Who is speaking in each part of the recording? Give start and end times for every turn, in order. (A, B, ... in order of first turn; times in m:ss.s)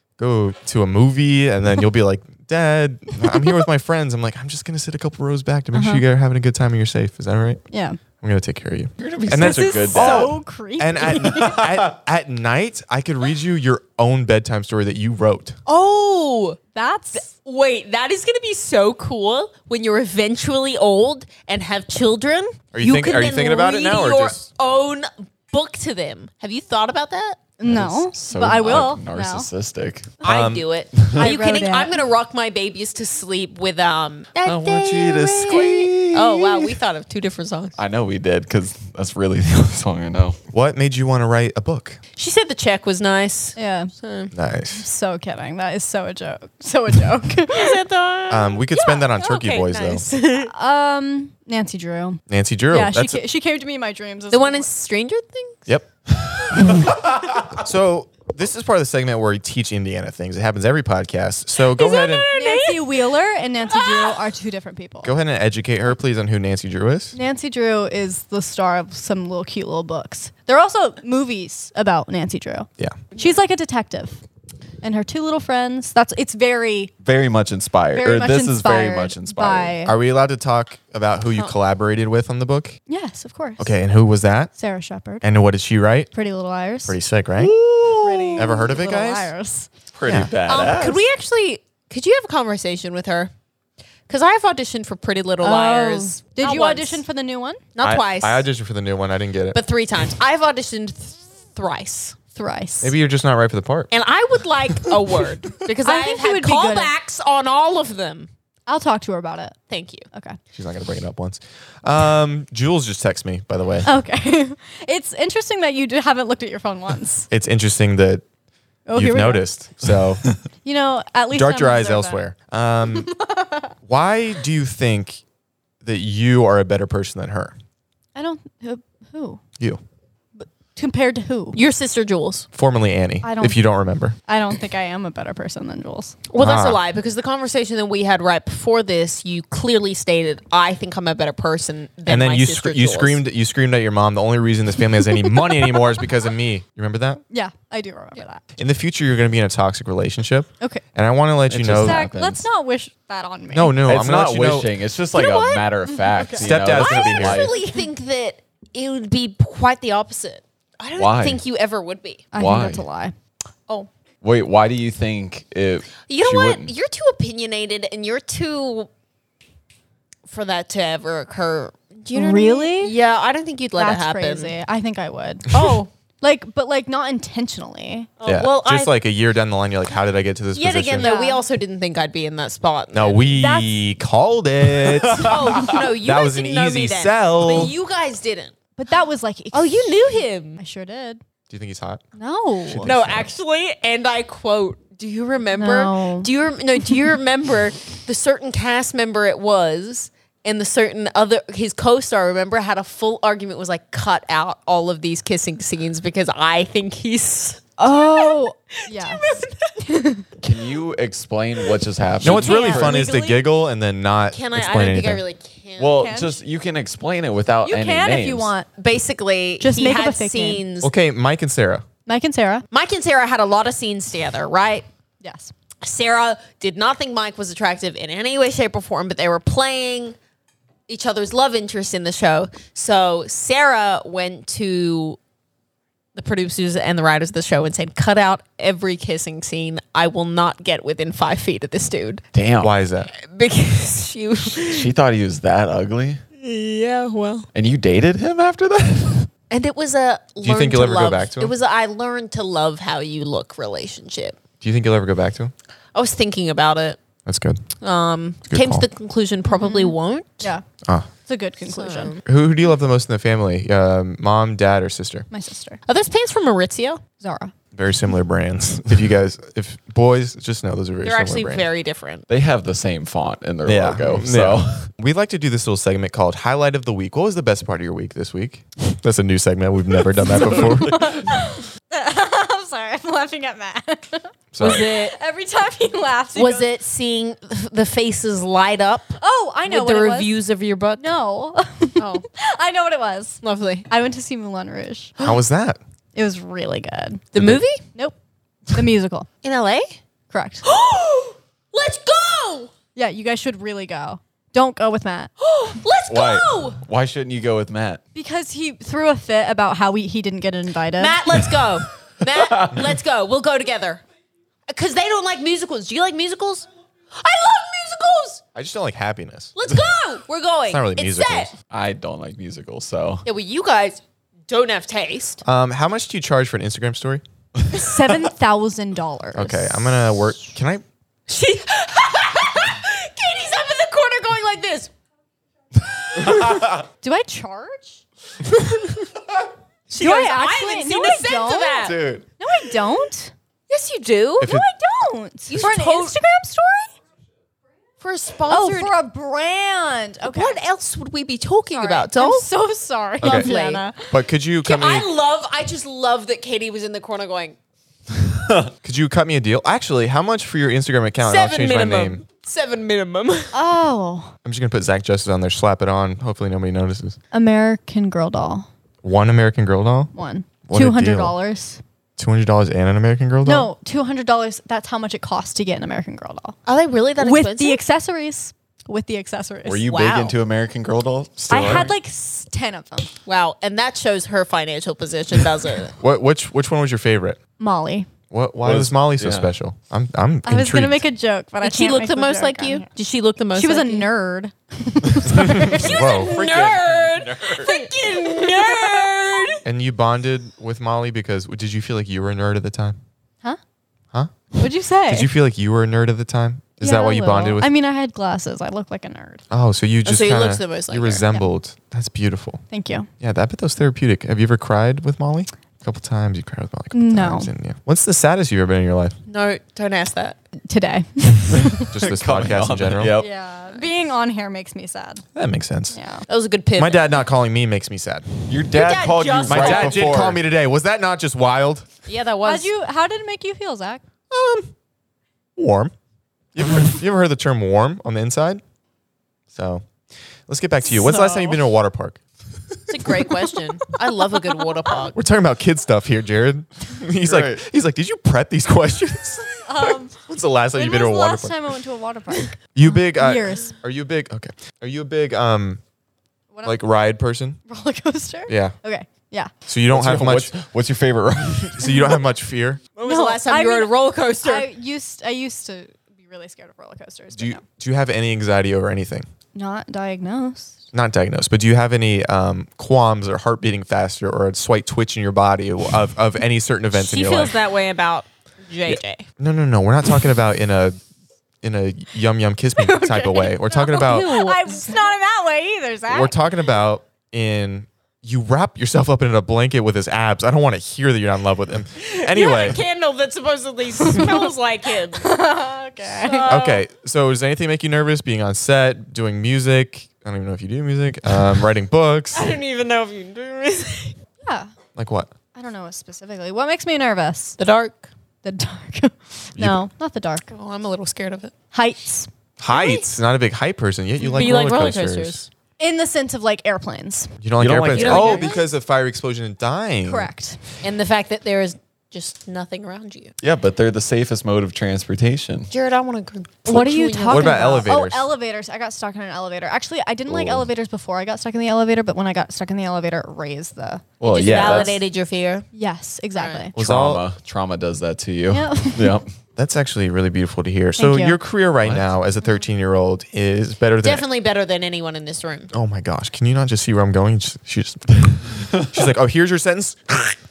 0:00.2-0:07.6 A
0:05.7-0:06.0 B
0:07.7-0:08.0 B
0:08.2-0:15.6 A
0:09.0-0:10.4 C
0:09.3-0:11.6 B
0:11.0-0:11.9 C
0:15.7-0:16.6 D
0:16.8-0:17.3 B
0:17.2-0:27.4 D
0:22.7-0:24.4 A
0:27.6-0:29.5 B
0:27.6-0:30.2 C
0:30.2-0:37.8 D
0:30.2-0:30.7 A
0:31.0-0:31.4 C
0:31.2-0:32.0 B
0:34.4-0:36.8 C
0:37.8-0:40.4 C
0:40.5-0:42.0 A
0:42.2-0:44.3 D
0:43.6-0:43.9 B
0:44.3-0:44.9 A
0:44.7-0:47.8 B
0:47.5-0:50.5 D
0:48.3-0:50.1 A
0:50.4-0:52.2 B
0:52.3-0:53.2 A
0:52.7-0:54.7 B
0:54.3-0:55.6 D
0:56.4-0:57.0 A
0:56.6-0:57.0 C
0:57.5-1:02.3 A
1:01.6-1:03.1 D
1:02.3-1:05.1 B
1:03.7-1:04.2 D
1:05.0-1:07.2 A
1:07.1-1:14.2 B
1:14.8-1:16.9 B
1:17.0-1:19.8 C
1:17.9-1:20.0 B
1:19.8-1:22.8 A
1:22.9-1:23.7 B
1:23.6-1:24.5 A
1:24.6-1:25.3 B
1:25.2-1:26.1 A
1:26.1-1:27.0 B
1:26.9-1:27.5 A
1:27.4-1:28.4 C
1:28.0-1:29.7 B
1:28.4-1:29.3 A
1:29.9-1:31.0 C
1:30.1-1:30.3 A
1:30.5-1:33.3 D
1:34.1-1:37.0 D
1:35.4-1:37.6 B
1:37.8-1:38.5 D
1:37.8-1:39.6 A
1:39.5-1:42.2 D
1:42.4-1:42.9 B
1:42.8-1:43.9 A
1:43.9-1:48.3 D
1:45.8-1:46.9 B
1:48.7-1:49.6 B
1:49.7-1:50.0 D
1:50.1-1:50.4 B
1:50.5-1:53.9 A
1:53.8-1:57.3 B
1:57.3-1:58.2 A
1:58.9-1:59.5 B
1:59.0-2:00.3 A
2:00.6-2:02.2 B
2:01.3-2:03.2 A
2:02.9-2:03.7 B
2:03.8-2:05.2 A
2:05.8-2:07.6 A
2:08.2-2:09.4 B
2:10.4-2:11.6 B
2:11.5-2:12.5 D
2:12.5-2:14.2 A
2:13.2-2:13.6 B
2:14.3-2:16.2 B
2:16.3-2:23.2 D
2:16.4-2:16.8 A
2:22.1-2:27.2 A
2:25.5-2:25.8 B
2:27.3-2:28.4 B
2:28.6-2:32.0 A
2:31.5-2:32.4 C
2:31.8-2:33.8 B
2:33.5-2:34.7 A
2:33.8-2:37.6 C
2:35.1-2:35.7 D
2:36.1-2:36.4 B
2:36.4-2:37.4 A
2:36.6-2:42.3 D
2:41.0-2:41.4 C
2:42.3-2:43.2 B
2:42.4-2:42.8 C
2:44.2-2:46.7 C
2:46.1-2:48.9 D
2:50.3-2:54.6 D
2:52.1-2:53.0 B
2:53.8-2:55.5 B
2:55.5-2:55.9 D
2:56.2-2:58.1 B
2:58.2-2:58.9 D
2:58.2-3:01.1 A
3:00.5-3:03.2 D
3:01.0-3:01.4 B
3:02.9-3:07.7 A
3:03.3-3:03.7 B
3:04.7-3:05.8 C
3:05.2-3:08.6 D
3:08.8-3:11.2 B
3:09.5-3:10.6 D
3:11.5-3:12.0 A
3:12.2-3:12.9 B
3:12.7-3:13.3 A
3:12.8-3:29.8 D
3:15.6-3:16.3 B
3:27.8-3:30.3 B
3:30.4-3:33.0 C
3:32.2-3:35.2 A
3:32.2-3:33.5 B
3:34.3-3:36.3 D
3:35.8-3:38.5 C
3:36.0-3:36.3 B
3:37.6-3:38.7 B
3:38.8-3:40.9 D
3:39.6-3:40.6 B
3:40.8-3:41.8 A
3:42.1-3:42.6 B
3:42.7-3:44.9 D
3:45.2-3:45.5 B
3:45.8-3:50.2 D
3:50.9-3:55.2 D
3:56.2-4:02.2 D
4:02.3-4:02.7 C
4:02.6-4:03.1 A
4:03.1-4:04.9 D
4:04.6-4:06.2 C
4:06.4-4:07.5 D
4:07.6-4:09.3 C
4:09.5-4:14.4 D
4:10.4-4:11.5 A
4:14.6-4:15.5 A
4:16.0-4:17.0 D
4:17.3-4:17.6 A
4:17.8-4:20.5 D
4:18.5-4:18.8 A
4:19.5-4:20.6 B
4:21.2-4:22.1 B
4:21.7-4:22.2 D
4:22.2-4:25.3 A
4:25.3-4:25.8 B
4:25.9-4:27.0 D
4:27.2-4:27.5 B
4:27.7-4:31.7 A
4:31.0-4:32.3 D
4:32.3-4:34.8 C
4:33.6-4:41.2 A
4:40.4-4:40.8 C
4:40.5-4:46.7 B
4:44.5-4:44.9 A
4:44.6-4:45.2 D
4:46.4-4:51.1 D
4:49.2-4:50.3 B
4:51.0-4:55.1 B
4:52.0-4:52.2 D
4:53.4-4:53.9 D
4:55.2-4:55.8 A
4:56.2-4:57.2 B
4:57.3-4:57.8 D
4:58.7-4:59.3 B
4:59.4-5:00.0 D
5:00.3-5:00.6 B
5:00.6-5:02.7 D
5:03.0-5:05.3 B
5:05.4-5:06.8 D
5:06.1-5:08.0 C
5:08.2-5:11.2 B
5:11.0-5:14.0 D
5:12.4-5:12.8 C
5:14.7-5:18.4 D
5:18.5-5:19.5 A
5:19.6-5:21.5 D
5:20.7-5:21.5 A
5:21.7-5:23.2 C
5:23.2-5:25.4 D
5:25.4-5:27.2 A
5:27.7-5:30.2 B
5:29.4-5:30.8 A
5:31.3-5:34.9 D
5:36.2-5:36.8 C
5:37.0-5:38.0 B
5:39.9-5:42.0 D
5:39.9-5:43.3 B
5:41.8-5:42.2 C
5:43.7-5:44.5 D
5:44.4-5:44.6 A
5:44.4-5:46.9 B
5:45.5-5:46.2 D
5:48.0-5:48.9 D
5:48.5-5:50.6 B
5:50.2-5:52.5 D
5:51.7-5:54.2 B
5:53.2-5:53.5 A
5:53.2-5:53.8 D
5:54.1-5:55.1 A
5:54.6-5:57.6 D
5:58.3-5:58.7 C
5:58.8-6:02.2 A
6:01.2-6:03.5 D
6:03.5-6:04.3 B
6:04.4-6:07.2 A
6:07.3-6:08.7 B
6:09.0-6:10.1 A
6:10.1-6:11.8 B
6:10.7-6:11.4 A
6:12.2-6:13.7 A
6:13.4-6:16.6 B
6:16.7-6:17.8 D
6:17.2-6:19.9 B
6:19.6-6:21.9 C
6:19.8-6:20.4 D
6:21.4-6:21.9 A
6:21.5-6:23.1 B
6:23.2-6:26.0 D
6:26.0-6:27.4 A
6:27.6-6:28.1 B
6:28.3-6:31.0 A
6:28.6-6:29.5 C
6:30.4-6:32.9 B
6:31.6-6:34.1 D
6:33.6-6:35.9 B
6:35.3-6:36.4 A
6:35.5-6:39.6 D
6:35.6-6:37.7 C
6:37.6-6:39.6 B
6:39.6-6:43.0 A
6:44.1-6:44.5 A
6:44.6-6:45.3 B
6:45.1-6:47.7 A
6:46.8-6:49.4 B
6:49.5-6:52.6 A
6:50.0-6:51.3 D
6:52.7-6:53.1 B
6:53.2-6:59.2 A
6:56.9-6:57.5 B
6:59.3-7:00.4 D
7:00.7-7:01.9 B
7:01.8-7:03.3 C
7:01.9-7:03.1 A
7:03.2-7:05.2 B
7:05.4-7:06.0 A
7:05.9-7:06.3 B
7:06.3-7:07.1 D
7:06.8-7:08.5 A
7:08.5-7:10.4 C
7:08.7-7:10.3 D
7:09.5-7:11.9 A
7:12.1-7:12.7 D
7:12.4-7:14.0 B
7:14.3-7:14.7 A
7:15.6-7:15.9 A
7:16.6-7:18.6 A
7:19.5-7:19.8 A
7:20.5-7:22.2 A
7:20.9-7:21.6 B
7:22.9-7:25.2 D
7:25.2-7:31.6 A
7:27.2-7:27.6 C
7:29.7-7:30.2 B
7:30.7-7:33.8 B
7:32.8-7:35.8 A
7:36.5-7:36.8 B
7:36.6-7:37.6 A
7:37.7-7:39.5 B
7:38.5-7:38.8 A
7:39.7-7:40.5 A
7:39.9-7:42.1 C
7:41.8-7:42.8 A
7:43.0-7:44.7 D
7:43.0-7:47.6 B
7:47.4-7:49.3 A
7:49.6-7:50.8 B
7:50.9-7:57.5 A
7:56.9-7:59.2 D
7:58.9-8:01.0 A
8:01.6-8:04.4 A
8:02.8-8:06.4 B
8:03.9-8:05.0 D
8:06.1-8:12.8 A
8:12.0-8:15.3 D
8:14.0-8:14.5 B
8:15.2-8:16.5 B
8:16.1-8:16.8 D
8:16.4-8:22.4 A
8:22.3-8:24.2 D
8:24.4-8:24.7 B
8:25.0-8:25.3 A
8:25.6-8:27.6 B
8:27.6-8:28.1 D
8:28.4-8:30.5 B
8:29.6-8:29.8 A
8:30.5-8:31.5 D
8:31.7-8:32.3 B
8:32.6-8:35.4 A
8:32.7-8:33.1 D
8:34.2-8:35.5 D
8:35.8-8:37.3 B
8:37.4-8:40.3 A
8:37.6-8:38.5 C
8:37.9-8:38.7 D
8:40.0-8:40.6 B
8:40.8-8:43.3 D
8:43.4-8:45.7 C
8:45.7-8:47.8 D
8:46.7-8:54.1 B
8:47.3-8:48.3 A
8:50.3-8:50.7 C
8:54.2-8:55.0 C
8:54.2-8:55.7 D
8:55.7-8:56.7 B
8:56.4-8:56.7 D
8:56.8-8:57.3 A
8:56.8-8:59.3 C
8:58.5-8:59.2 B
8:59.6-9:04.3 A
9:01.0-9:01.4 B
9:01.8-9:02.1 C
9:04.0-9:05.7 D
9:05.7-9:10.4 A
9:08.7-9:09.0 C